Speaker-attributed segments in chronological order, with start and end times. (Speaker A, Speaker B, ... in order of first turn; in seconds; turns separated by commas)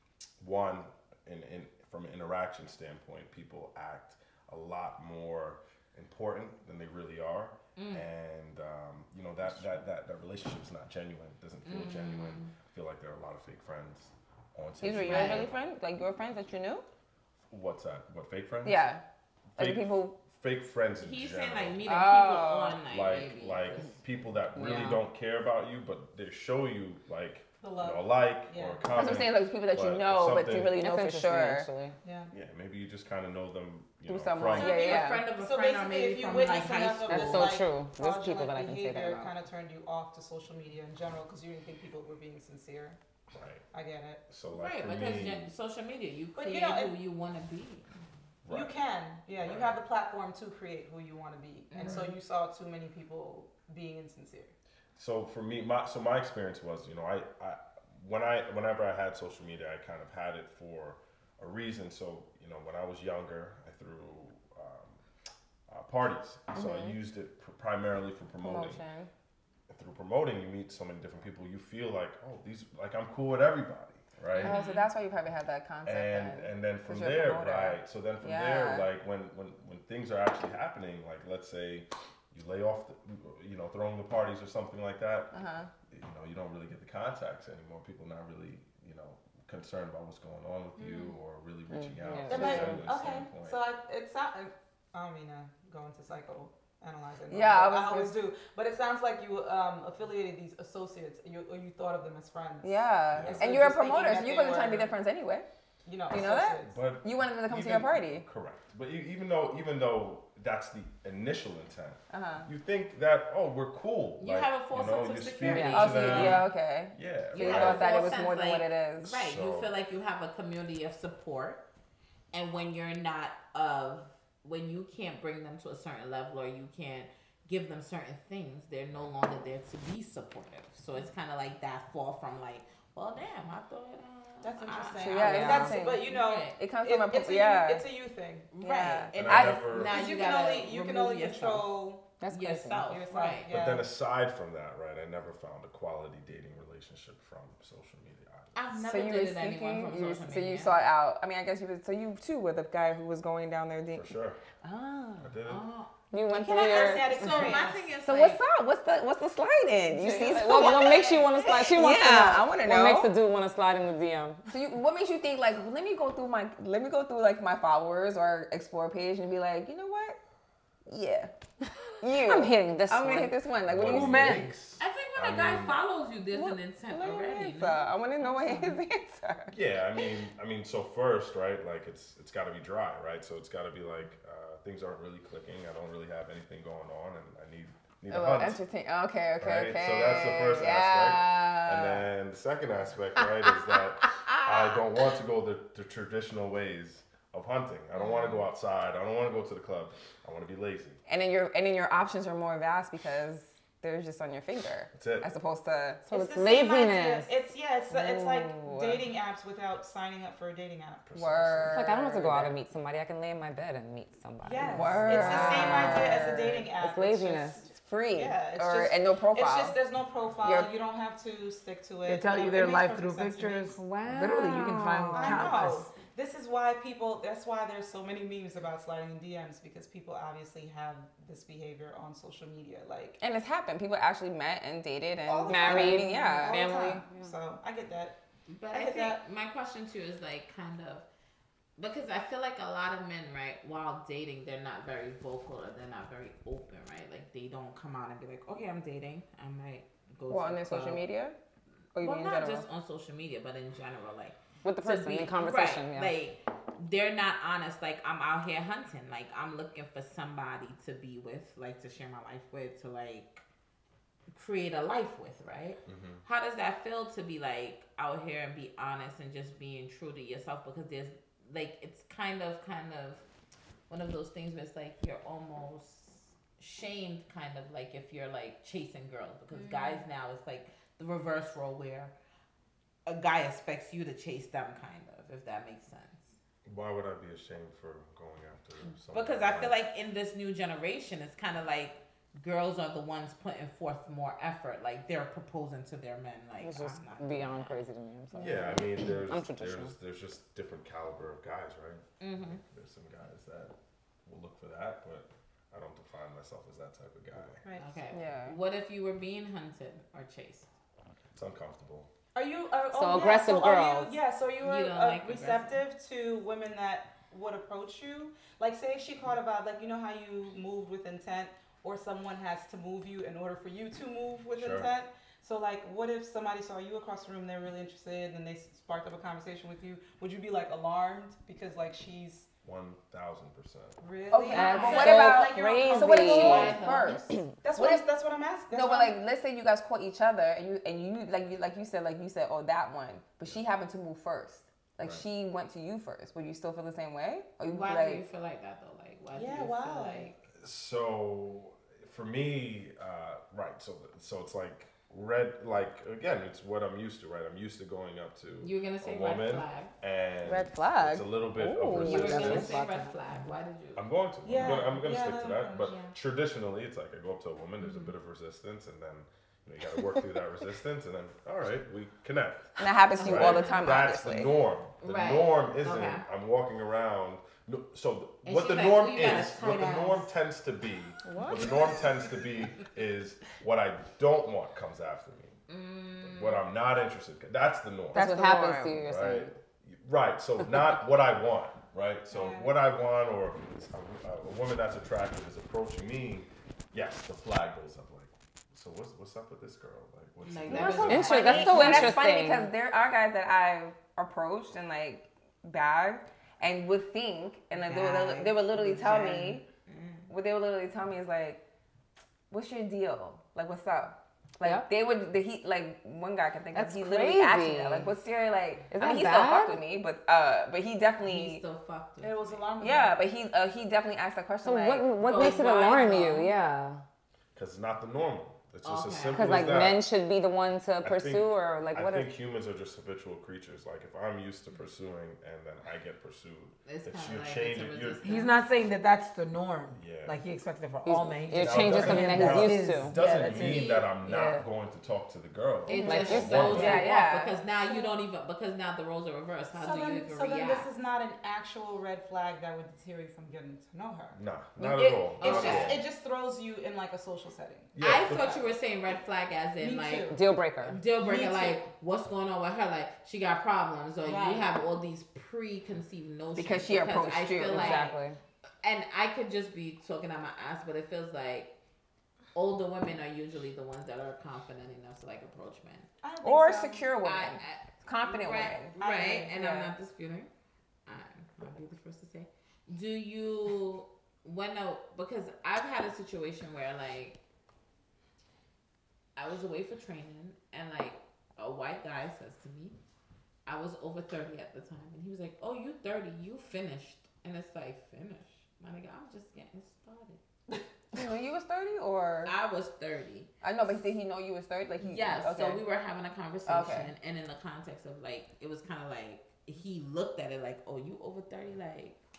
Speaker A: 0.4-15.6, Speaker B: 7.8-8.0, Speaker B: 11.6-12.6, Speaker C: 14.8-16.9, Speaker B: 15.0-15.4, Speaker A: 17.5-18.9, Speaker C: 18.6-19.0, Speaker A: 19.6-21.8, Speaker C: 19.6-20.2, Speaker B: 21.0-24.0, Speaker C: 21.8-22.8, Speaker A: 22.8-30.8, Speaker D: 24.5-25.0, Speaker E: 27.6-28.9, Speaker C: 28.9-31.7, Speaker D: 30.8-31.9, Speaker E: 32.0-32.3, Speaker A: 32.3-35.0, Speaker C: 34.1-35.3, Speaker B: 34.5-37.6, Speaker E: 34.8-43.0, Speaker D: 37.0-39.3, Speaker A: 43.3-43.6, Speaker E: 43.7-44.2, Speaker A: 44.3-45.5, Speaker B: 44.5-47.9, Speaker E: 46.3-47.0, Speaker A: 48.4-48.7, Speaker E: 48.5-54.5, Speaker A: 49.4-49.8, Speaker B: 51.7-52.1, Speaker A: 55.0-65.0, Speaker A: 65.7-68.8, Speaker C: 66.5-67.0, Speaker C: 68.4-69.1, Speaker A: 69.7-74.6, Speaker B: 74.3-74.9, Speaker C: 74.3-78.9, Speaker A: 75.8-85.3, Speaker C: 85.3-85.7, Speaker A: 85.9-93.6, Speaker B: 90.8-91.2, Speaker C: 91.8-92.8, Speaker D: 92.0-92.8, Speaker E: 92.3-104.9, Speaker C: 97.3-98.2, Speaker C: 102.6-105.5, Speaker A: 103.1-103.6, Speaker E: 105.8-106.8, Speaker C: 106.1-108.2, Speaker A: 106.6-117.9, Speaker C: 112.1-112.5, Speaker B: 114.2-116.4, Speaker D: 115.5-115.8, Speaker C: 115.5-119.1, Speaker B: 117.3-121.6, Speaker A: 119.1-119.7, Speaker B: 122.3-136.6, Speaker E: 134.4-138.5, Speaker C: 135.0-137.9, Speaker D: 135.2-135.7, Speaker B: 138.5-143.5, Speaker C: 138.6-139.6, Speaker A: 139.1-140.0, Speaker E: 139.7-142.0, Speaker D: 142.2-142.9, Speaker E: 142.9-143.9, Speaker A: 143.5-148.6, Speaker B: 148.5-150.8, Speaker C: 148.7-155.3, Speaker A: 153.9-154.4, Speaker A: 155.2-155.7, Speaker B: 155.4-155.9, Speaker D: 156.1-157.5, Speaker E: 156.3-157.9, Speaker B: 156.6-158.4, Speaker C: 158.0-163.1, Speaker D: 160.0-164.4, Speaker B: 160.0-160.9, Speaker E: 160.3-161.5, Speaker C: 164.5-170.2, Speaker C: 170.8-171.3, Speaker C: 172.0-174.4, Speaker D: 172.1-173.4, Speaker A: 173.7-175.8, Speaker F: 173.8-174.5, Speaker B: 174.8-178.6, Speaker C: 176.3-180.0, Speaker A: 179.5-188.6, Speaker C: 188.1-192.1, Speaker A: 189.4-201.0, Speaker C: 201.1-206.0, Speaker A: 204.9-205.3, Speaker E: 206.0-211.0, Speaker D: 206.1-207.3, Speaker C: 207.9-209.0, Speaker A: 211.0-211.8, Speaker C: 211.1-212.5, Speaker D: 211.7-217.6, Speaker E: 214.4-223.8, Speaker C: 214.7-216.7, Speaker C: 217.7-219.8, Speaker C: 220.4-220.7, Speaker F: 222.0-225.9, Speaker D: 223.7-225.5, Speaker E: 225.1-233.2, Speaker C: 233.2-236.8, Speaker E: 235.2-238.2, Speaker D: 235.5-237.3, Speaker B: 238.5-241.1, Speaker E: 238.7-239.2, Speaker B: 241.8-251.1, Speaker C: 250.3-251.3, Speaker C: 251.9-252.6, Speaker B: 252.0-263.4, Speaker D: 254.6-256.1, Speaker B: 264.3-273.2, Speaker A: 265.9-266.2, Speaker B: 273.9-282.1, Speaker B: 283.1-286.3, Speaker A: 286.6-289.7, Speaker B: 289.1-297.8, Speaker D: 296.6-299.9, Speaker A: 298.4-303.7, Speaker B: 298.4-298.8, Speaker B: 302.2-302.6, Speaker A: 304.2-307.6, Speaker E: 307.6-308.1, Speaker B: 307.8-310.7, Speaker C: 308.1-308.6, Speaker A: 311.3-312.1, Speaker E: 312.3-332.5, Speaker D: 312.9-314.2, Speaker B: 314.6-315.8, Speaker A: 324.5-324.9, Speaker A: 332.6-334.0, Speaker E: 334.0-337.0, Speaker C: 334.3-338.0, Speaker D: 334.5-336.7, Speaker B: 334.6-335.5, Speaker B: 336.1-337.4, Speaker E: 337.6-339.1, Speaker C: 338.7-348.2, Speaker B: 347.6-350.4, Speaker E: 349.3-350.3, Speaker A: 350.5-362.8, Speaker B: 358.6-359.9, Speaker C: 360.4-363.1, Speaker B: 362.0-364.0, Speaker A: 363.9-385.6, Speaker E: 364.4-365.9, Speaker B: 365.8-366.2, Speaker B: 367.8-368.1, Speaker C: 372.8-374.5, Speaker B: 373.1-374.1, Speaker B: 375.0-376.2, Speaker B: 378.4-380.3, Speaker C: 381.2-381.9, Speaker B: 381.6-382.8, Speaker B: 385.7-386.7, Speaker A: 386.2-388.3, Speaker D: 388.1-389.5, Speaker C: 388.1-389.0, Speaker A: 388.9-401.6, Speaker E: 392.3-392.8, Speaker B: 400.4-402.2, Speaker D: 401.0-402.7, Speaker C: 401.2-409.6, Speaker B: 407.7-410.3, Speaker C: 410.3-411.6, Speaker C: 412.5-421.6, Speaker D: 414.6-414.9, Speaker D: 416.7-418.1, Speaker D: 418.9-419.8, Speaker B: 421.2-422.7, Speaker E: 422.2-423.2, Speaker C: 422.8-425.1, Speaker D: 424.6-427.0, Speaker B: 425.2-426.5, Speaker A: 427.5-430.1, Speaker B: 428.8-429.8, Speaker D: 429.3-432.3, Speaker A: 431.0-438.2, Speaker B: 436.8-438.5, Speaker F: 438.2-444.6, Speaker A: 439.9-440.4, Speaker D: 441.0-443.1, Speaker A: 441.5-447.1, Speaker B: 443.3-444.1, Speaker B: 445.9-450.9, Speaker C: 445.9-447.6, Speaker D: 445.9-447.0, Speaker E: 447.8-448.2, Speaker E: 449.7-457.9, Speaker A: 454.4-456.0, Speaker B: 455.4-456.0, Speaker A: 457.9-458.7, Speaker B: 458.0-468.1, Speaker E: 459.8-460.4, Speaker D: 460.3-461.0, Speaker E: 461.1-461.8, Speaker E: 464.2-464.7, Speaker C: 466.5-468.1, Speaker D: 467.6-468.4, Speaker B: 468.8-471.7, Speaker B: 472.5-476.1, Speaker E: 476.2-477.1, Speaker C: 476.4-479.0, Speaker B: 477.2-480.5, Speaker E: 479.0-479.5, Speaker C: 479.5-479.9, Speaker B: 481.1-487.4, Speaker B: 489.4-492.9, Speaker B: 493.6-500.4, Speaker C: 501.1-502.5, Speaker B: 502.4-503.5, Speaker C: 503.6-505.8, Speaker B: 505.0-512.2, Speaker C: 506.6-507.1